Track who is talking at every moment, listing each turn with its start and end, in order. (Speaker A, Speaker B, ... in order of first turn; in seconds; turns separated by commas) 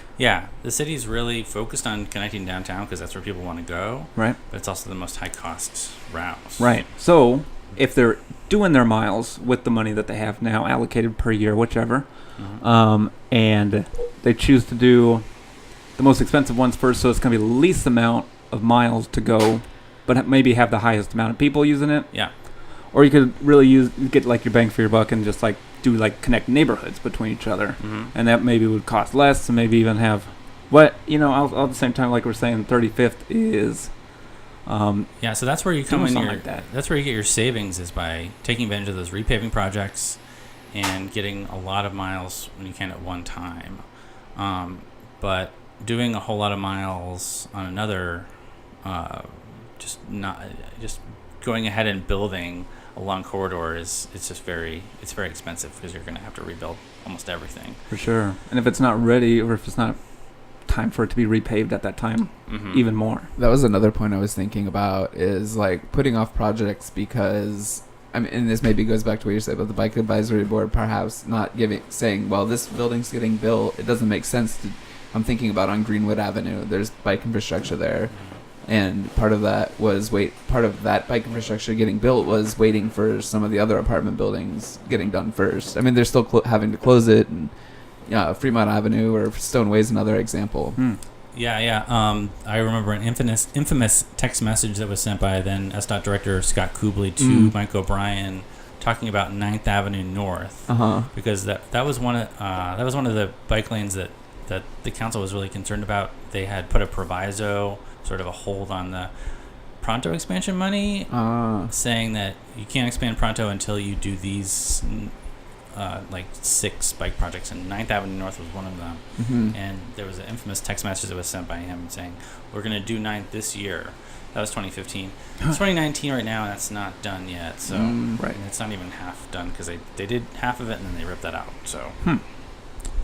Speaker A: 0.1-6.8, Speaker B: 6.6-15.3, Speaker A: 12.3-12.6, Speaker B: 15.9-22.2, Speaker B: 22.9-33.9, Speaker A: 27.8-28.1, Speaker B: 34.6-35.2, Speaker A: 35.2-40.2, Speaker B: 35.9-36.6, Speaker A: 40.7-43.8, Speaker A: 44.4-48.3, Speaker A: 48.8-57.8, Speaker B: 57.9-60.0, Speaker B: 60.6-63.3, Speaker A: 62.5-62.8, Speaker C: 63.4-78.1, Speaker C: 78.6-87.5, Speaker C: 88.1-90.8, Speaker A: 91.3-109.1, Speaker C: 97.2-97.5, Speaker C: 100.7-101.1, Speaker A: 109.8-111.1, Speaker C: 111.1-111.7, Speaker A: 111.7-115.1, Speaker A: 115.7-132.0, Speaker C: 119.2-119.5, Speaker C: 127.7-128.2